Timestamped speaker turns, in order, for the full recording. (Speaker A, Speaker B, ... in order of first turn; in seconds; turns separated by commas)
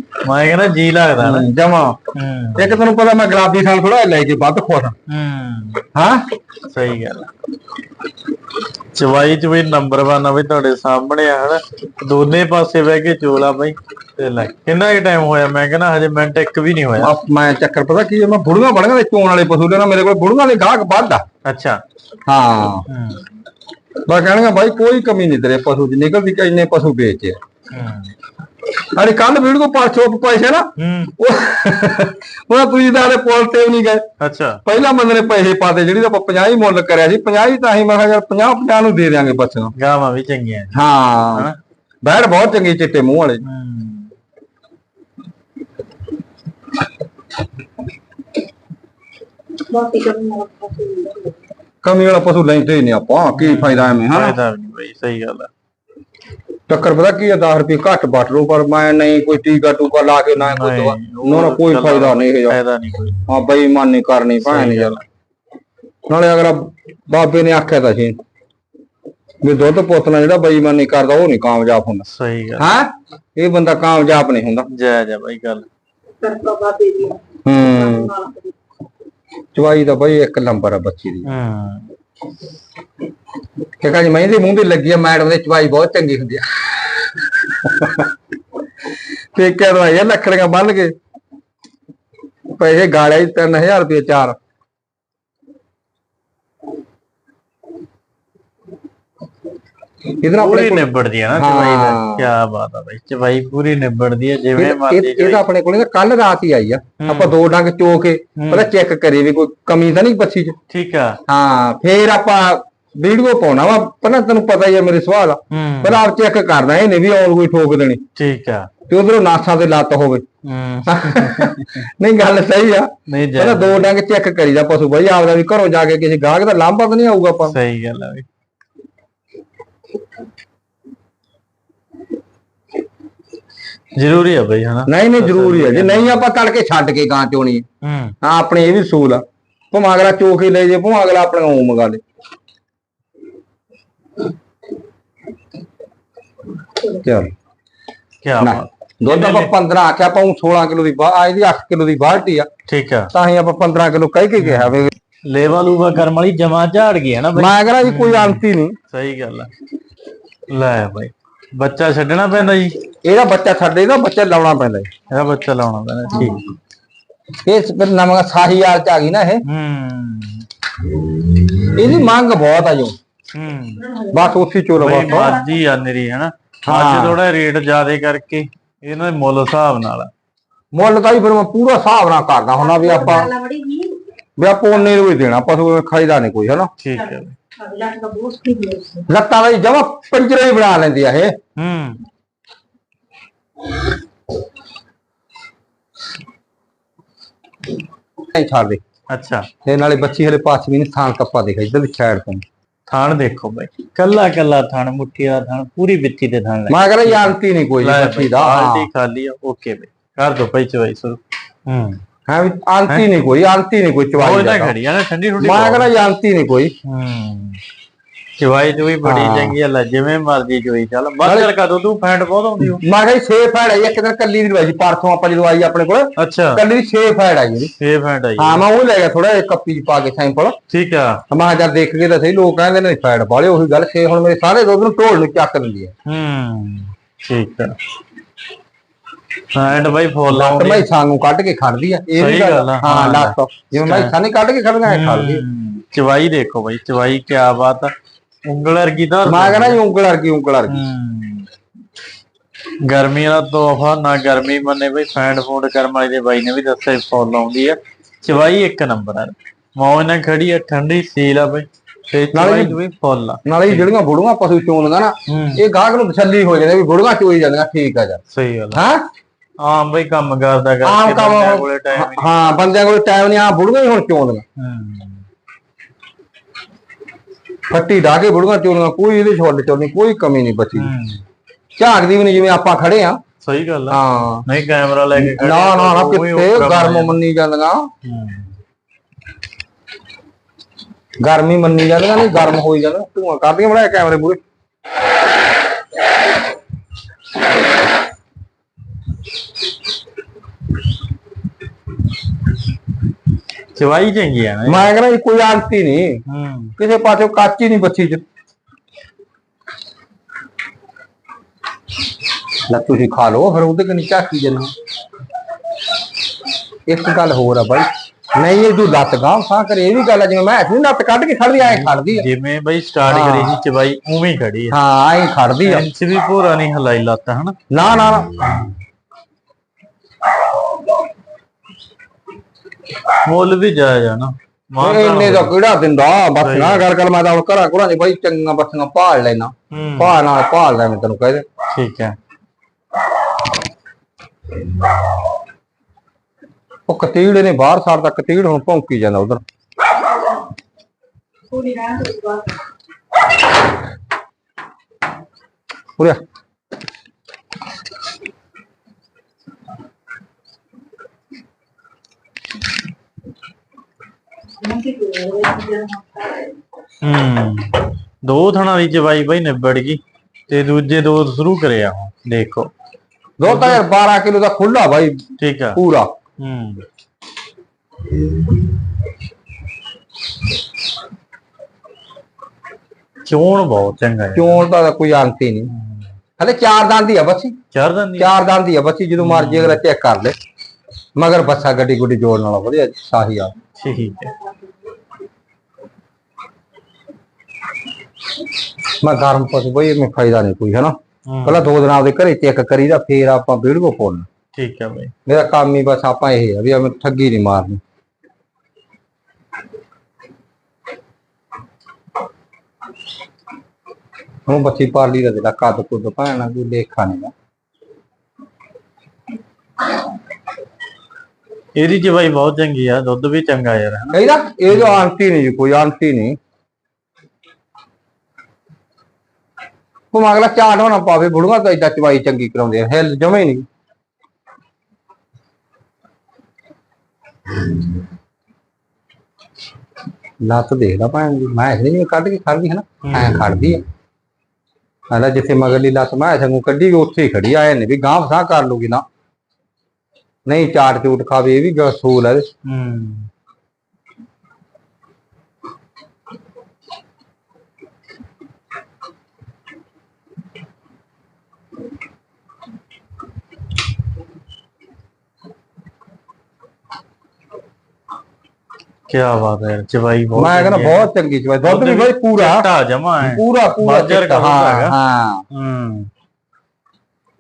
Speaker A: 0.2-1.5, Speaker B: 1.2-2.0, Speaker A: 2.1-2.8, Speaker B: 2.6-5.0, Speaker A: 5.1-5.8, Speaker B: 5.9-6.2, Speaker A: 6.7-7.3, Speaker A: 8.9-17.1, Speaker B: 17.0-21.2, Speaker A: 21.4-21.8, Speaker B: 22.3-22.9, Speaker A: 22.9-23.2, Speaker B: 24.1-27.4, Speaker A: 27.7-28.1, Speaker B: 29.0-34.0, Speaker A: 30.8-31.1, Speaker A: 34.2-34.6, Speaker B: 34.6-39.7, Speaker A: 39.8-40.8, Speaker B: 40.7-41.5, Speaker B: 42.0-43.4, Speaker A: 43.4-44.1, Speaker C: 49.7-51.4, Speaker B: 51.8-54.4, Speaker A: 53.4-55.5, Speaker B: 56.7-62.6, Speaker A: 60.4-63.2, Speaker B: 63.3-65.0, Speaker A: 64.4-65.0, Speaker B: 66.1-68.2, Speaker B: 69.4-72.0, Speaker A: 72.1-72.7, Speaker B: 72.6-74.7, Speaker A: 74.7-75.7, Speaker C: 76.2-78.5, Speaker B: 77.5-78.1, Speaker B: 79.5-81.3, Speaker A: 81.2-81.9, Speaker B: 83.8-88.1, Speaker B: 89.3-91.0, Speaker B: 92.5-94.4, Speaker B: 100.2-102.3, Speaker A: 100.4-105.4, Speaker B: 104.6-110.5, Speaker A: 107.0-107.3, Speaker A: 108.4-108.7, Speaker A: 110.7-111.2, Speaker B: 111.3-118.0, Speaker A: 115.5-116.0, Speaker A: 118.2-118.7, Speaker B: 118.9-120.2, Speaker A: 120.5-121.6, Speaker B: 120.9-127.6, Speaker A: 123.1-123.9, Speaker A: 127.5-128.2, Speaker A: 133.9-136.2, Speaker B: 134.9-137.6, Speaker A: 137.8-138.2, Speaker B: 138.2-142.0, Speaker B: 146.9-147.3, Speaker A: 148.2-149.5, Speaker B: 148.4-152.5, Speaker A: 152.7-153.1, Speaker B: 153.1-154.9, Speaker A: 154.4-159.5, Speaker B: 157.4-158.8, Speaker A: 160.5-162.8, Speaker B: 163.0-164.9, Speaker A: 165.1-166.4, Speaker B: 167.4-169.4, Speaker A: 169.4-170.5, Speaker B: 171.7-172.9, Speaker A: 173.3-173.9, Speaker C: 173.9-174.2, Speaker B: 174.1-175.4, Speaker A: 174.8-180.1, Speaker B: 176.7-177.2, Speaker B: 180.7-183.3, Speaker C: 182.7-184.0, Speaker B: 184.4-186.7, Speaker A: 186.8-187.4, Speaker C: 187.6-189.1, Speaker B: 189.1-191.3, Speaker A: 191.6-192.0, Speaker B: 198.3-198.8, Speaker A: 199.1-199.5, Speaker B: 199.7-202.4, Speaker A: 202.9-212.0, Speaker B: 206.7-208.9, Speaker B: 212.3-214.7, Speaker A: 214.2-215.9, Speaker B: 215.4-216.7, Speaker A: 216.9-217.6, Speaker A: 218.4-222.8, Speaker B: 219.1-219.6, Speaker B: 221.2-221.5, Speaker B: 222.6-227.7, Speaker A: 226.2-226.6, Speaker A: 227.7-228.7, Speaker B: 228.4-230.6, Speaker A: 230.7-231.2, Speaker B: 231.3-235.9, Speaker A: 236.1-237.8, Speaker A: 239.5-240.9, Speaker B: 240.3-245.4, Speaker A: 242.2-244.1, Speaker A: 244.9-247.9, Speaker A: 248.5-249.8, Speaker B: 249.2-250.8, Speaker A: 250.7-251.5, Speaker A: 252.8-263.9, Speaker B: 262.3-262.8, Speaker B: 263.5-268.2, Speaker A: 265.3-265.6, Speaker A: 268.3-268.8, Speaker B: 268.7-269.0, Speaker A: 269.6-272.6, Speaker B: 270.8-274.4, Speaker A: 274.6-275.2, Speaker B: 277.7-280.9, Speaker A: 280.8-281.2, Speaker B: 281.8-283.2, Speaker A: 283.4-287.2, Speaker B: 283.9-284.4, Speaker B: 285.2-287.9, Speaker A: 288.1-288.5, Speaker B: 291.2-294.4, Speaker A: 303.8-304.9, Speaker B: 304.7-306.2, Speaker A: 306.3-306.7, Speaker B: 306.8-308.2, Speaker B: 312.7-314.7, Speaker B: 316.9-322.3, Speaker A: 321.6-324.8, Speaker B: 323.1-323.6, Speaker B: 324.7-325.9, Speaker A: 325.6-327.6, Speaker B: 327.7-328.6, Speaker A: 333.2-335.5, Speaker B: 334.8-341.4, Speaker A: 336.4-336.9, Speaker A: 339.7-340.1, Speaker A: 341.7-342.2, Speaker B: 346.9-349.4, Speaker C: 351.5-352.5, Speaker C: 364.6-366.5, Speaker A: 367.0-372.7, Speaker B: 373.4-375.2, Speaker A: 373.4-373.8, Speaker A: 375.4-375.8, Speaker B: 375.8-376.1, Speaker A: 376.4-376.8, Speaker A: 383.2-384.6, Speaker B: 384.4-385.7, Speaker A: 385.7-386.1, Speaker B: 386.4-387.6, Speaker A: 387.7-388.3, Speaker B: 388.2-390.4, Speaker A: 389.2-389.8, Speaker B: 391.2-393.6, Speaker A: 393.8-394.4, Speaker B: 399.0-400.9, Speaker A: 401.3-401.6, Speaker B: 401.4-404.3, Speaker A: 404.5-405.1, Speaker B: 405.3-407.8, Speaker B: 414.5-417.3, Speaker A: 421.8-425.0, Speaker B: 424.1-426.4, Speaker B: 430.1-433.7, Speaker B: 440.4-443.8, Speaker A: 443.0-443.4, Speaker B: 445.1-449.0, Speaker B: 450.5-452.5, Speaker A: 452.6-453.3, Speaker A: 469.1-471.1, Speaker B: 470.4-472.7, Speaker A: 471.6-475.0, Speaker B: 473.2-475.4, Speaker A: 475.5-476.1